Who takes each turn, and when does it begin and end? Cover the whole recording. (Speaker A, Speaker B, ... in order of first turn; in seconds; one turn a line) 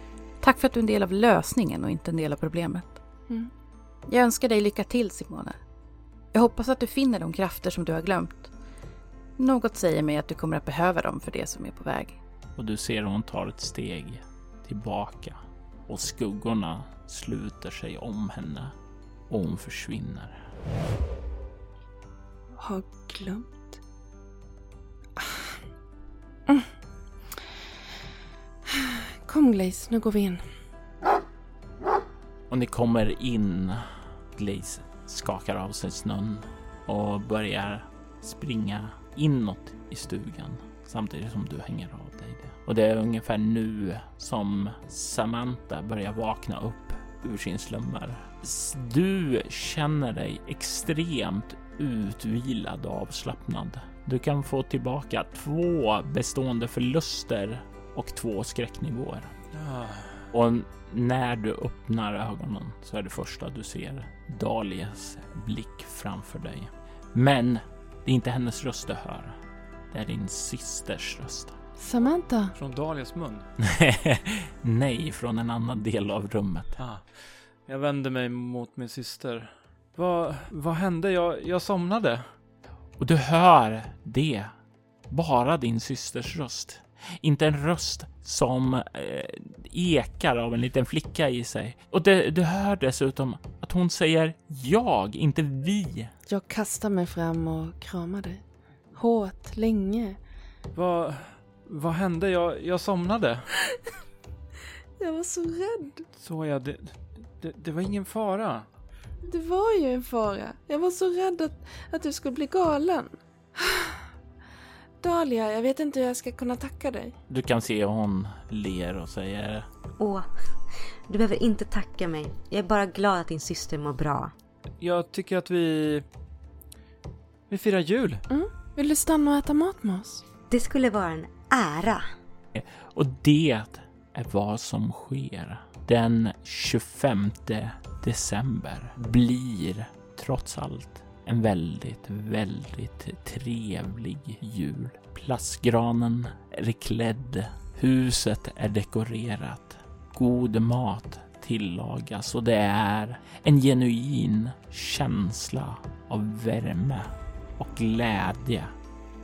Speaker A: 0.4-3.0
Speaker A: 4.1-5.6
Speaker A: 6.3-8.5
Speaker A: 9.4-12.2
Speaker B: 12.6-18.8
Speaker B: 19.3-20.4
Speaker C: 22.6-23.7
Speaker C: 25.2-25.6
Speaker C: 28.7-30.4
Speaker B: 32.5-59.3
Speaker D: 59.5-60.2
Speaker B: 60.3-69.4
Speaker B: 69.9-71.5
Speaker C: 71.8-72.5
Speaker D: 72.5-73.5
Speaker B: 73.6-76.8
Speaker D: 76.8-82.3
Speaker B: 83.0-84.5
Speaker B: 85.1-96.1
Speaker C: 96.3-98.4
Speaker C: 98.9-100.2
Speaker D: 100.7-103.6
Speaker C: 105.0-106.1
Speaker D: 106.2-108.7
Speaker C: 109.3-114.1
Speaker C: 115.0-117.2
Speaker B: 117.3-119.7
Speaker E: 120.0-120.3
Speaker E: 121.1-124.3
Speaker D: 124.8-126.0
Speaker D: 127.5-128.2
Speaker C: 128.3-130.2
Speaker E: 130.5-132.1
Speaker B: 132.5-158.7